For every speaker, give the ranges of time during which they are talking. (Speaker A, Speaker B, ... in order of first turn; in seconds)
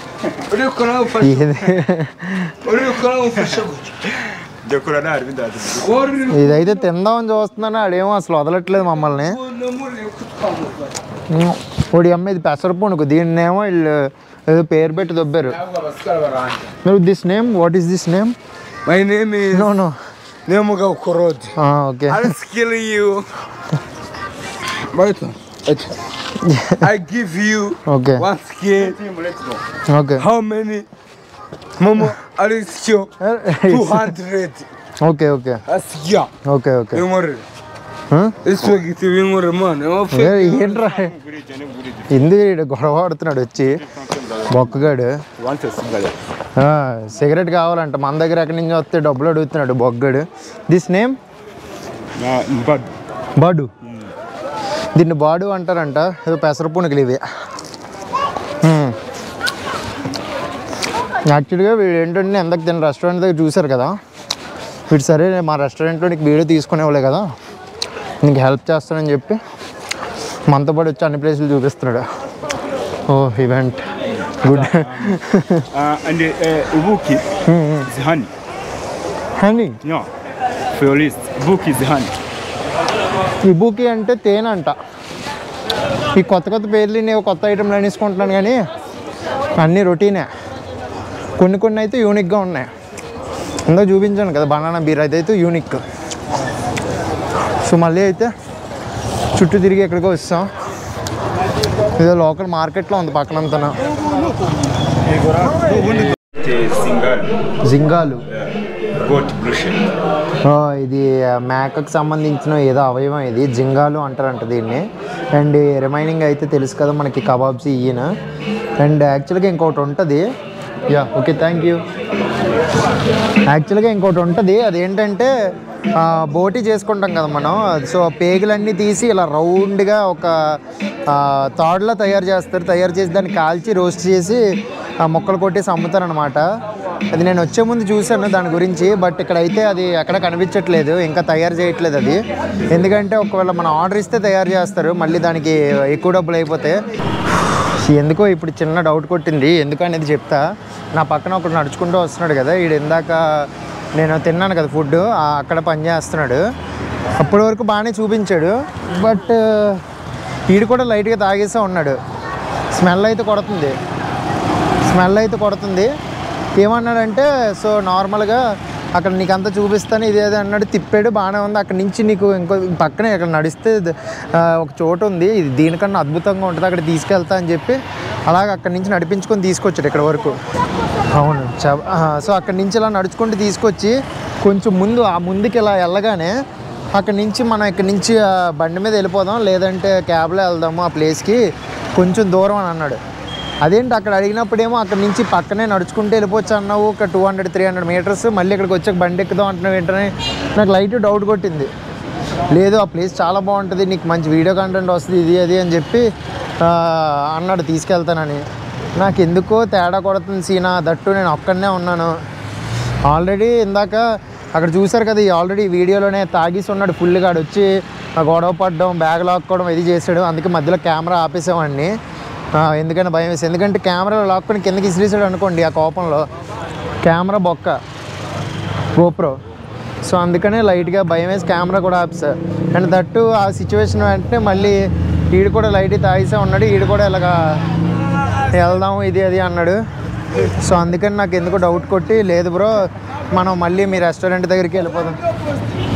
Speaker A: 0.5-1.7, 2.6-4.1, 5.8-6.8, 8.8-10.9, 15.6-16.7, 18.8-19.7, 20.4-21.5, 22.1-23.3, 24.9-25.9, 26.8-29.0, 30.2-30.9, 31.8-33.1, 33.6-34.7, 35.7-36.3, 36.9-37.4, 38.4-40.5
Speaker B: 1.2-2.5, 6.3-9.4, 11.3-15.6, 16.8-18.3, 19.5-20.0, 21.6-22.3, 26.4-26.9, 27.9-28.2, 29.9-30.2, 33.2-34.1, 35.0-35.6, 36.4-37.0, 38.1-38.4, 40.1-41.1, 42.1-43.8, 44.5-45.2, 46.6-51.2, 53.4-53.7, 54.9-57.2, 58.6-59.0, 61.2-64.0, 64.9-67.3, 68.2-69.4, 70.5-72.0, 73.1-73.8, 74.4-75.7, 77.5-77.9, 79.4-79.8, 83.4-84.8, 86.2-88.6, 89.6-90.3, 91.4-92.7, 93.7-95.8, 97.6-98.3, 99.3-100.5, 102.0-103.7, 107.7-108.2, 110.4-118.1, 118.8-120.3, 120.9-121.8, 123.5-125.3, 125.9-134.4, 135.0-136.4, 137.1-146.8, 147.5-156.4, 157.2-159.8, 160.5-162.0, 162.7-163.8, 164.8-165.9, 166.6-177.8, 178.3-180.4, 181.1-186.3, 186.9-191.4, 191.9-193.0, 193.6-201.7, 202.5-206.1, 206.6-208.4, 208.9-212.2, 213.1-221.9, 222.5-226.3, 227.0-227.8, 228.9-229.4, 230.0-237.6, 238.5-239.8, 240.6-245.2
Speaker C: 4.5-6.0, 28.7-29.6, 40.4-42.1, 43.8-44.8, 45.4-46.1, 52.2-52.9, 74.2-75.2, 75.7-77.3, 77.8-78.3, 79.8-80.1, 80.7-82.1, 105.0-107.4, 108.3-109.9